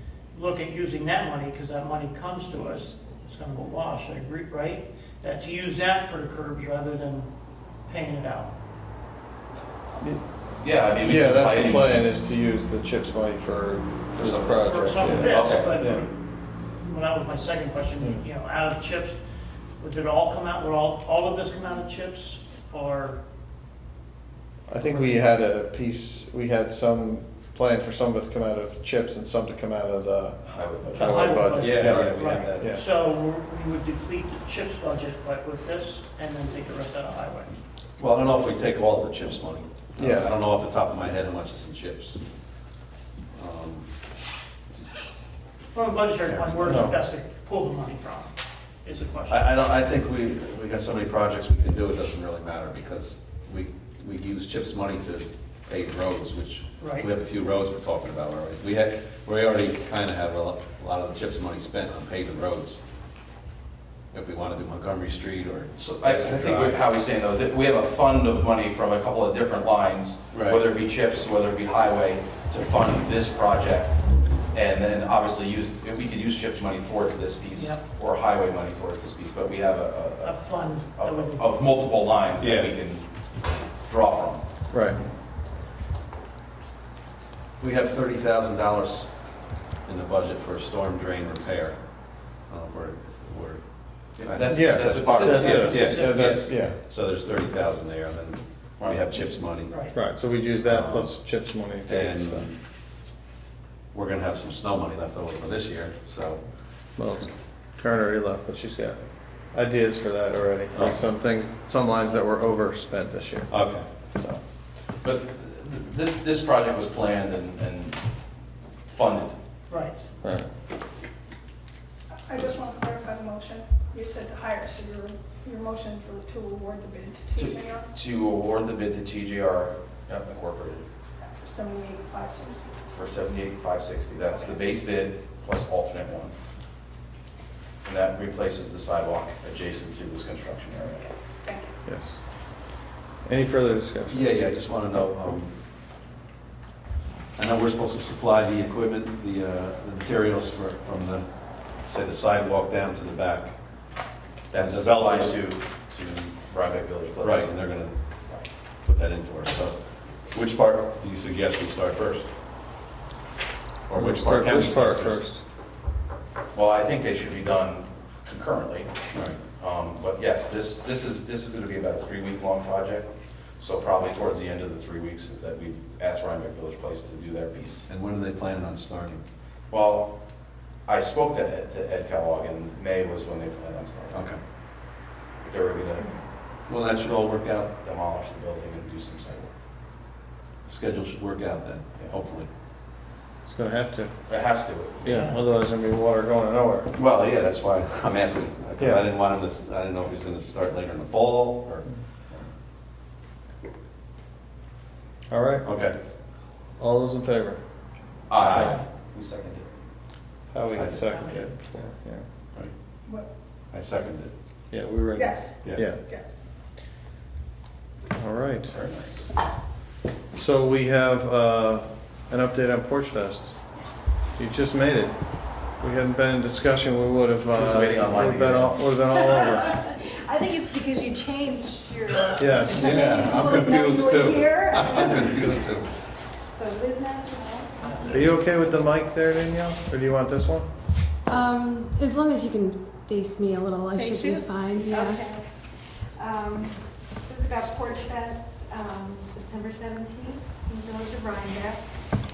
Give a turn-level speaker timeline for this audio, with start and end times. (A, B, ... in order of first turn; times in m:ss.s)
0:00.3-0:07.3 A
0:07.9-0:08.5 A
0:10.6-0:12.1 B
0:11.0-0:16.0 C
0:14.2-0:14.7 B
0:14.6-0:16.2 A
0:15.2-0:15.8 B
0:16.8-0:19.2 A
0:18.0-0:18.2 C
0:19.8-0:23.2 A
0:24.7-0:30.4 C
0:24.8-0:25.2 A
0:30.4-0:31.2 B
0:30.9-0:37.6 A
0:31.0-0:32.8 C
0:31.6-0:32.8 D
0:38.0-0:42.2 D
0:40.0-0:40.3 C
0:43.3-0:43.9 D
0:45.7-0:48.3 A
0:46.2-0:46.8 D
0:46.6-0:46.9 C
0:48.8-0:49.4 A
0:49.3-1:02.8 D
0:56.8-0:57.1 A
1:04.1-1:06.8 D
1:05.8-1:14.0 B
1:10.3-1:10.6 D
1:14.5-1:24.4 B
1:17.5-1:17.8 A
1:20.2-1:21.5 A
1:22.4-1:22.7 D
1:24.7-1:25.0 C
1:27.6-1:29.1 D
1:29.8-1:31.8 D
1:32.5-1:33.6 D
1:34.2-1:36.1 B
1:34.2-1:39.7 D
1:34.5-1:36.8 C
1:35.9-1:36.2 A
1:38.8-1:39.1 B
1:39.7-1:39.9 A
1:39.9-1:42.5 C
1:40.6-1:41.2 D
1:41.9-1:42.6 D
1:43.9-1:46.4 D
1:47.0-1:49.0 C
1:49.5-1:53.5 C
1:50.7-1:51.0 D
1:53.5-1:53.8 D
1:55.0-1:58.0 B
1:58.9-1:59.4 B
1:59.7-2:00.0 A
2:00.2-2:00.5 C
2:02.3-2:07.9 E
2:07.4-2:10.8 B
2:11.2-2:12.7 E
2:12.9-2:16.3 B
2:14.3-2:14.6 E
2:17.8-2:21.1 B
2:21.4-2:21.7 E
2:21.8-2:22.1 C
2:23.2-2:24.3 C
2:24.1-2:25.5 D
2:27.4-2:31.2 D
2:31.8-2:33.6 D
2:34.5-2:37.5 B
2:34.5-2:35.4 D
2:37.2-2:38.0 D
2:38.8-2:39.8 D
2:40.3-2:42.3 D
2:43.9-2:45.2 D
2:43.9-2:45.4 C
2:46.5-2:48.9 B
2:49.1-2:49.4 D
2:49.6-2:53.1 B
2:53.6-2:57.9 B
2:57.9-2:59.2 D
2:59.7-3:00.2 B
3:00.8-3:04.2 B
3:04.1-3:04.4 D
3:05.4-3:06.1 B
3:06.7-3:07.7 D
3:07.8-3:09.5 B
3:10.6-3:12.5 D
3:13.4-3:14.1 C
3:14.3-3:15.2 B
3:15.0-3:16.9 C
3:16.9-3:22.4 D
3:25.3-3:25.6 C
3:25.6-3:26.0 D
3:26.8-3:27.6 C
3:28.3-3:29.6 B
3:28.4-3:28.8 D
3:28.6-3:28.8 A
3:30.5-3:32.2 C
3:30.8-3:31.1 D
3:31.1-3:31.5 A
3:33.7-3:34.3 D
3:34.7-3:36.0 C
3:35.1-3:36.3 E
3:38.1-3:38.7 C
3:38.7-3:39.3 B
3:40.3-3:43.6 C
3:44.4-3:45.1 C
3:45.8-3:49.7 C
3:47.5-3:48.8 B
3:49.1-3:55.7 F
3:52.4-3:53.0 C
3:52.7-3:56.0 D
3:56.5-3:58.0 F
3:58.1-4:00.7 C
4:01.3-4:05.2 G
4:03.9-4:04.4 E
4:04.7-4:05.5 F
4:06.2-4:11.8 F